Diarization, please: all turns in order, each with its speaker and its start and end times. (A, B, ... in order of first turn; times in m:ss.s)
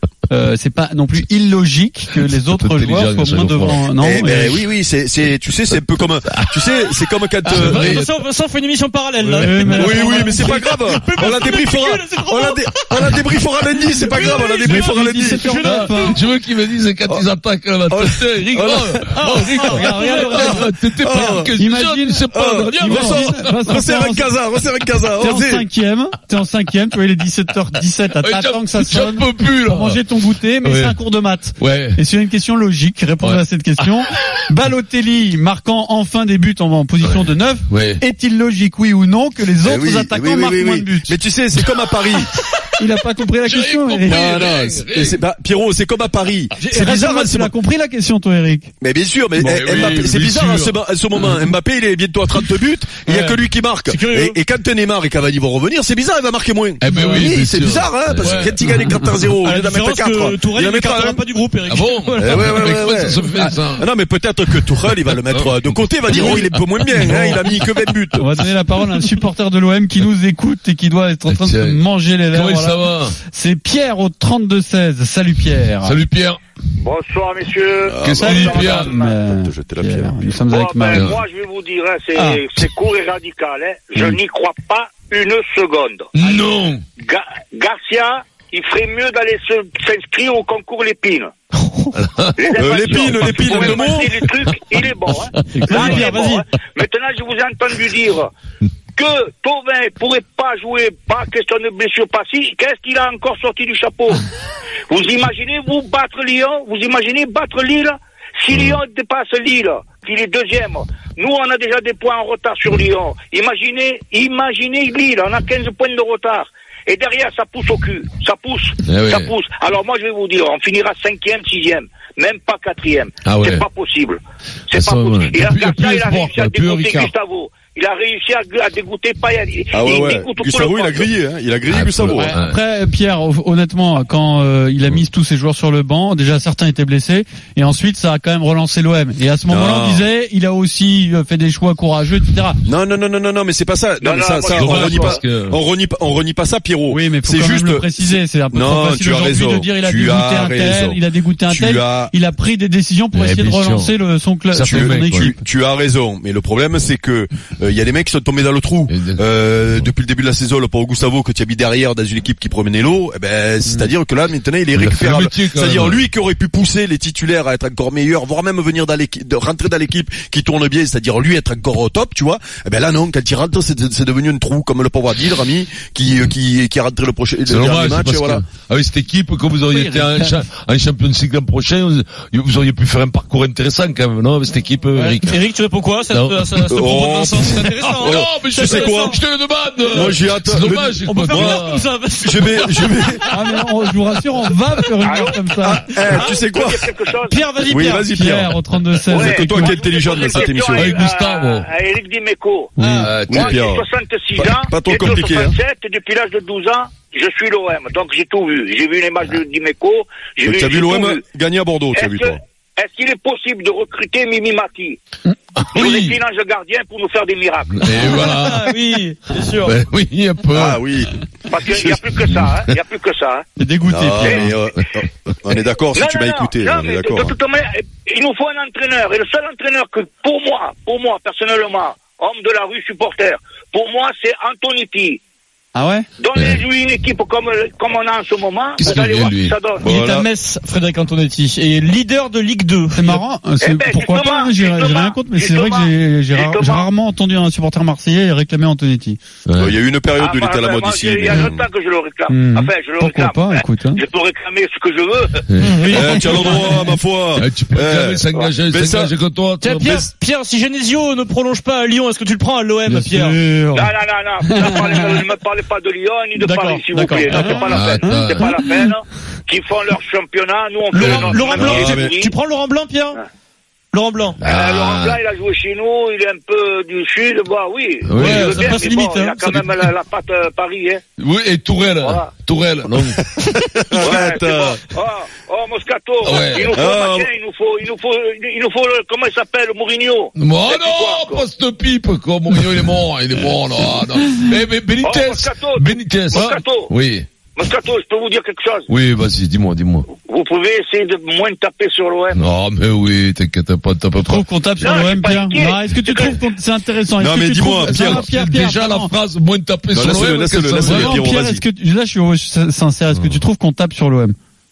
0:00.3-0:04.6 A
0:02.3-0:04.4 B
0:04.0-0:07.9 C
0:07.4-0:16.2 D
0:07.5-0:08.1 B
0:09.2-0:09.6 B
0:09.4-0:10.4 A
0:09.7-0:15.4 C
0:14.6-0:16.2 A
0:15.6-0:23.7 B
0:17.9-0:19.0 C
0:19.1-0:20.5 D
0:19.7-0:20.6 A
0:20.0-0:21.5 C
0:21.5-0:24.3 A
0:22.3-0:25.6 C
0:25.2-0:41.2 A
0:28.2-0:30.0 B
0:30.6-0:31.0 B
0:31.6-0:32.0 B
0:33.2-0:34.0 B
0:37.0-0:38.0 B
0:39.6-0:42.3 C
0:42.8-0:44.2 A
0:43.4-0:45.2 B
0:44.0-0:47.5 C
0:46.6-0:48.7 A
0:48.8-1:01.2 C
0:49.4-0:50.7 B
0:53.1-0:54.4 D
0:56.8-0:58.6 B
0:56.9-0:57.2 D
0:59.4-1:02.8 D
1:01.6-1:03.8 B
1:02.2-1:08.2 C
1:05.1-1:05.5 B
1:06.2-1:06.4 B
1:08.2-1:16.0 A
1:11.3-1:13.2 B
1:15.8-1:16.4 B
1:16.8-1:19.1 E
1:17.9-1:20.3 C
1:18.0-1:18.9 B
1:18.2-1:21.1 A
1:20.5-1:26.5 E
1:20.9-1:21.2 B
1:26.1-1:26.8 B
1:27.0-1:31.3 E
1:32.0-1:32.4 B
1:32.4-1:38.3 E
1:32.5-1:34.2 C
1:33.0-1:34.6 B
1:35.2-1:35.8 B
1:35.6-1:36.4 D
1:35.6-1:36.3 A
1:39.0-1:44.2 E
1:44.9-2:11.1 E
1:58.8-1:59.3 B
2:03.2-2:03.6 B
2:04.7-2:07.1 B
2:09.7-2:12.3 C
2:11.7-2:12.6 B
2:12.1-2:22.6 A
2:19.5-2:20.1 C
2:22.6-2:32.1 C
2:24.0-2:25.2 E
2:24.5-2:25.6 B
2:26.9-2:35.4 A
2:33.1-2:33.9 B
2:34.5-2:35.3 B
2:34.6-2:58.4 C
2:38.9-2:39.9 B
2:44.7-2:46.1 B
2:57.5-3:05.4 B
2:59.7-3:00.4 D
3:04.9-3:09.2 D
3:06.1-3:06.8 B
3:06.7-3:09.2 C
3:07.7-3:11.9 B
3:09.9-3:11.6 C
3:11.0-3:13.5 D
3:12.2-3:13.2 C
3:13.3-3:16.0 A
3:15.0-3:15.4 E
3:15.6-3:16.8 C
3:16.0-3:17.4 E
3:17.3-3:18.1 D
3:17.6-3:18.5 C
3:18.1-3:19.8 A
3:19.1-3:22.7 E
3:19.1-3:21.0 C
3:20.7-3:21.7 B
3:22.8-3:23.1 A
3:22.8-3:23.1 D
3:23.0-3:23.6 B
3:23.3-3:25.5 C
3:23.3-3:31.2 E
3:30.4-3:32.4 C
3:31.9-3:35.0 E
3:35.7-3:36.2 B
3:35.7-3:38.0 E
3:37.7-3:38.8 B
3:37.9-3:39.8 D
3:39.6-3:40.8 B
3:40.5-3:41.1 C
3:41.5-3:43.4 E
3:41.7-3:42.0 C
3:42.3-3:42.8 B
3:43.6-3:44.5 A
3:43.9-3:47.3 C
3:45.9-3:55.2 E
3:55.7-3:56.1 A
3:56.2-3:59.9 E
3:56.3-3:56.6 B
3:58.8-3:59.5 B
3:59.8-4:00.3 C
3:59.8-4:03.2 D
4:02.9-4:09.2 A
4:03.6-4:06.9 E
4:09.4-4:09.8 B
4:09.6-4:11.7 C
4:10.2-4:15.4 E
4:12.3-4:14.0 A
4:15.5-4:16.3 B
4:15.6-4:16.8 D
4:15.9-4:19.1 C
4:17.3-4:20.1 B
4:18.3-4:18.6 E
4:19.6-4:23.4 D
4:22.8-4:25.2 A
4:23.7-4:32.3 E
4:26.4-4:27.7 D
4:27.2-4:28.8 A
4:27.6-4:28.6 B
4:30.9-4:33.2 D
4:31.0-4:31.4 B
4:31.6-4:32.1 C
4:33.9-4:34.4 D
4:34.4-4:35.2 B
4:34.4-4:41.0 E
4:38.0-4:38.8 B
4:38.1-4:39.8 D
4:41.2-4:43.2 B
4:42.0-4:42.3 E
4:43.4-4:44.8 C
4:44.0-4:51.5 E
4:46.2-4:46.7 B
4:46.7-4:47.3 C
4:50.4-4:57.3 B
4:55.0-4:56.9 E
4:57.6-4:58.9 E
4:58.9-5:00.1 B
5:00.1-5:02.4 E
5:02.3-5:04.9 B
5:04.2-5:09.1 A
5:04.8-5:06.4 E
5:07.2-5:08.3 C
5:07.8-5:11.3 B
5:09.9-5:11.6 C
5:10.8-5:14.4 A
5:13.1-5:13.4 B